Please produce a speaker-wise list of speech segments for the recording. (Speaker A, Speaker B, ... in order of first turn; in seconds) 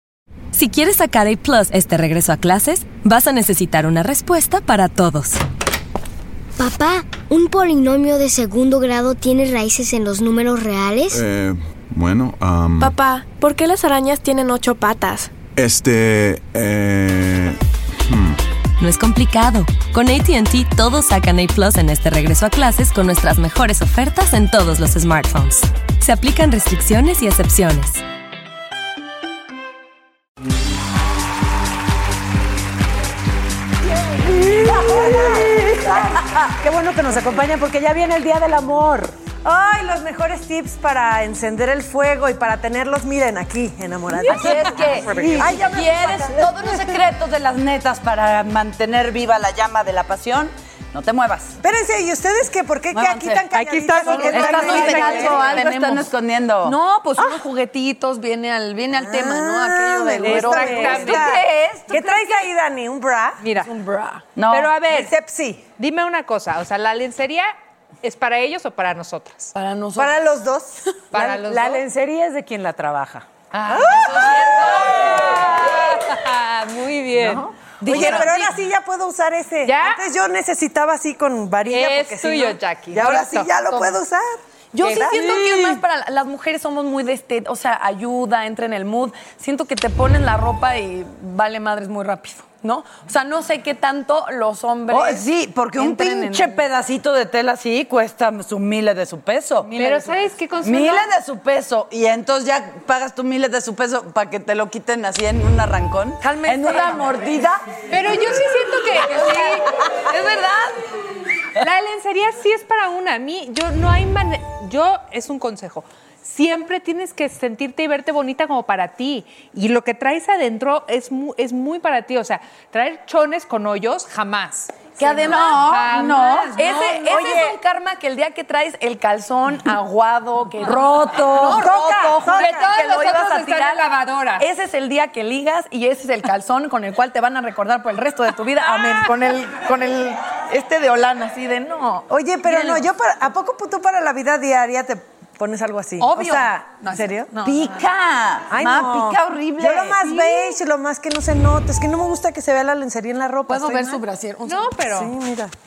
Speaker A: 0.5-5.4, 18.8-28.0
Speaker B: 6.6-11.2
Speaker C: 11.1-13.0, 15.6-18.4
Speaker D: 13.0-15.2
Speaker E: 34.3-39.1, 45.4-46.2, 71.1-73.3
Speaker F: 39.4-45.6, 51.6-55.6, 59.0-63.4, 64.8-65.6, 70.0-70.8, 73.7-74.2, 77.8-84.4, 142.1-147.3, 148.5-154.0, 154.8-155.5
Speaker G: 44.3-51.6, 52.9-56.7, 64.3-64.8, 94.9-99.7, 100.6-107.6, 125.2-126.6, 130.6-131.7, 147.4-150.6
Speaker H: 53.6-56.1, 56.6-61.4, 63.6-64.2, 69.5-70.1, 77.8-78.4, 84.7-96.6, 99.7-100.2, 106.2-107.1, 125.0-125.8, 126.5-133.8, 134.4-142.8, 146.0-147.9, 153.5-154.7
Speaker I: 54.3-55.8, 60.2-62.0, 63.4-63.7, 64.5-65.2, 65.8-69.5, 71.1-71.8, 73.5-78.6, 79.6-80.0, 81.7-83.6, 84.8-85.7, 99.7-101.1, 107.9-110.8, 111.6-127.5, 131.6-134.4, 154.4-155.1